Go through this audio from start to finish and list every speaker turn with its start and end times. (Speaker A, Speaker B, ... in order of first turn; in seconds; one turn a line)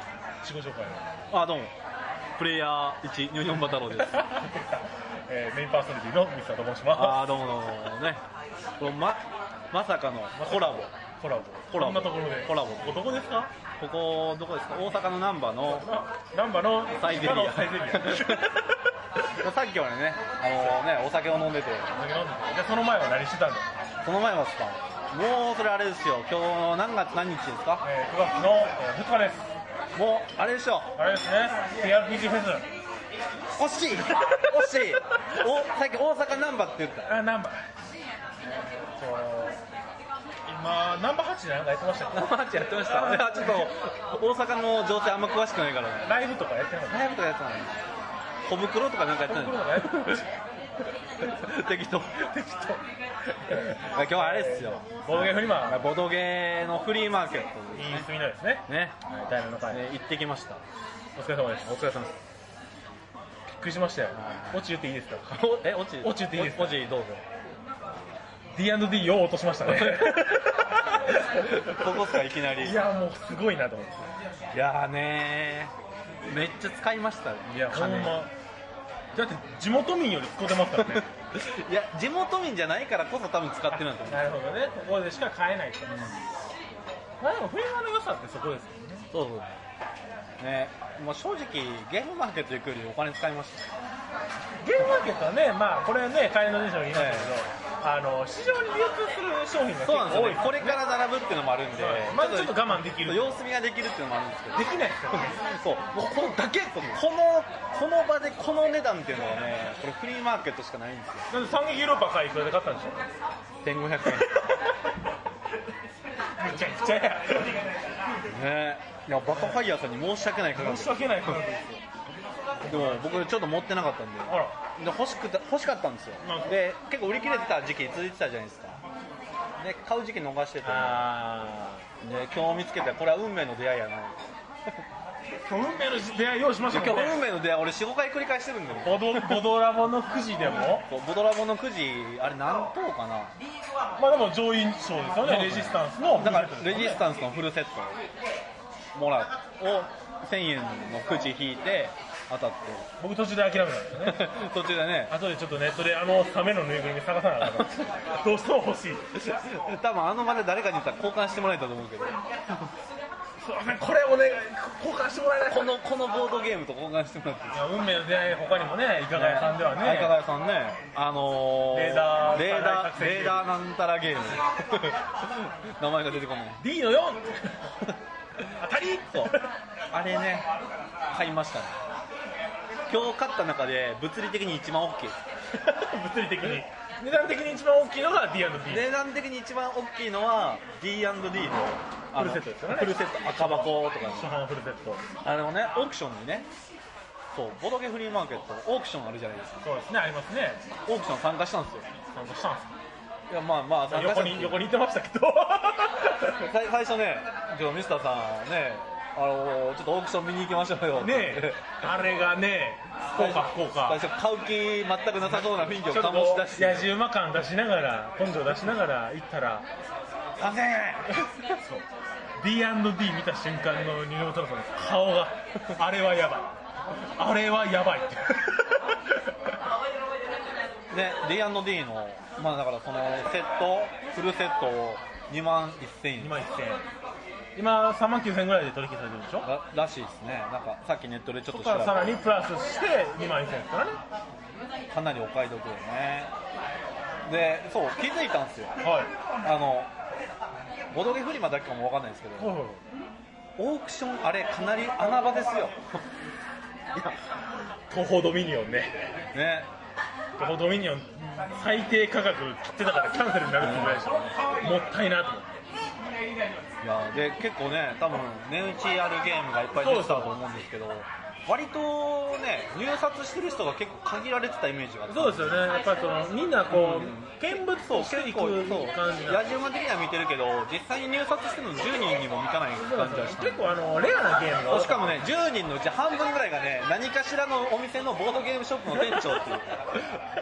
Speaker A: 0.4-1.0
Speaker B: 1.3-1.7
Speaker B: 2.4-4.5
Speaker A: 3.7-7.4
Speaker B: 7.0-8.2
Speaker B: 8.8-10.9
Speaker A: 10.4-13.5
Speaker B: 11.7-13.1
Speaker B: 13.8-15.9
Speaker A: 15.7-18.8
Speaker B: 16.9-18.6
Speaker B: 19.3-21.9
Speaker A: 21.9-23.8
Speaker B: 24.0-27.9
Speaker A: 27.8-29.5
Speaker B: 29.9-30.9
Speaker A: 31.0-32.7
Speaker B: 33.5-37.2
Speaker A: 34.2-34.5
Speaker A: 37.0-37.7
Speaker A: 39.0-39.6
Speaker A: 40.5-43.7
Speaker B: 42.1-46.1
Speaker A: 46.0-47.1
Speaker B: 46.9-47.9
Speaker B: 48.5-50.2
Speaker A: 49.2-50.3
Speaker B: 51.2-52.8
Speaker A: 52.5-52.8
Speaker A: 53.3-55.9
Speaker B: 53.8-58.1
Speaker A: 57.8-59.8
Speaker B: 58.7-59.0
Speaker B: 59.7-60.6
Speaker A: 61.2-61.9
Speaker B: 61.7-62.1
Speaker A: 63.6-66.9
Speaker B: 65.6-67.2
Speaker A: 68.5-74.1
Speaker B: 69.7-70.4
Speaker B: 71.4-72.8
Speaker B: 74.5-75.7
Speaker B: 76.3-78.2
Speaker A: 77.5-78.3
Speaker A: 79.1-81.1
Speaker B: 80.8-84.3
Speaker A: 83.7-86.2
Speaker A: 87.2-89.1
Speaker B: 89.1-89.6
Speaker B: 90.4-93.7
Speaker A: 94.6-100.8
Speaker B: 96.9-97.4
Speaker B: 99.8-111.3
Speaker A: 101.7-103.4
Speaker A: 104.5-105.3
Speaker A: 111.3-113.1
Speaker B: 113.6-114.4
Speaker A: 114.1-114.7
Speaker A: 116.4-117.7
Speaker B: 118.3-121.4
Speaker A: 120.5-121.8
Speaker A: 122.6-123.2
Speaker B: 122.7-128.8
Speaker A: 124.3-124.5
Speaker A: 126.2-126.5
Speaker B: 129.6-131.1
Speaker A: 130.6-131.9
Speaker B: 132.0-134.3
Speaker A: 135.5-137.2
Speaker B: 136.7-139.4
Speaker A: 138.8-140.9
Speaker B: 140.9-143.3
Speaker A: 144.0-147.0
Speaker B: 145.2-148.0
Speaker B: 148.9-152.9
Speaker A: 153.0-154.3
Speaker B: 154.0-155.2
Speaker A: 155.1-159.2
Speaker B: 157.4-157.9
Speaker B: 159.2-162.2
Speaker A: 163.4-165.8
Speaker B: 165.5-167.7
Speaker A: 167.5-170.2
Speaker B: 169.1-176.6
Speaker A: 171.7-173.5
Speaker A: 176.6-177.8
Speaker A: 178.6-179.5
Speaker B: 179.9-180.5
Speaker B: 181.1-181.8
Speaker B: 182.9-185.2
Speaker A: 185.5-188.9
Speaker B: 188.7-194.3
Speaker A: 192.2-195.1
Speaker B: 195.2-196.5
Speaker B: 197.3-199.6
Speaker A: 199.6-200.7
Speaker B: 200.9-201.9
Speaker A: 202.1-202.7
Speaker B: 203.3-204.7
Speaker A: 203.9-206.5
Speaker B: 206.4-211.6
Speaker A: 211.0-214.0
Speaker B: 213.2-216.9
Speaker A: 215.2-219.7
Speaker B: 220.4-221.2
Speaker A: 221.1-221.8
Speaker A: 222.4-226.5
Speaker A: 227.2-229.5
Speaker B: 230.9-236.4
Speaker A: 236.2-236.8
Speaker A: 237.6-239.5
Speaker B: 239.4-242.2
Speaker A: 241.5-244.0
Speaker B: 244.9-246.3
Speaker B: 247.3-248.7
Speaker A: 248.8-249.1
Speaker B: 249.4-249.9
Speaker B: 250.9-252.6
Speaker A: 252.4-252.8
Speaker B: 253.6-256.0
Speaker A: 257.9-258.9
Speaker B: 259.3-259.7
Speaker A: 260.4-265.6
Speaker B: 263.6-264.3
Speaker B: 266.8-275.6
Speaker A: 269.8-270.3
Speaker A: 275.1-279.5
Speaker B: 276.7-283.6
Speaker A: 282.8-285.3
Speaker B: 284.7-289.7
Speaker A: 289.0-289.4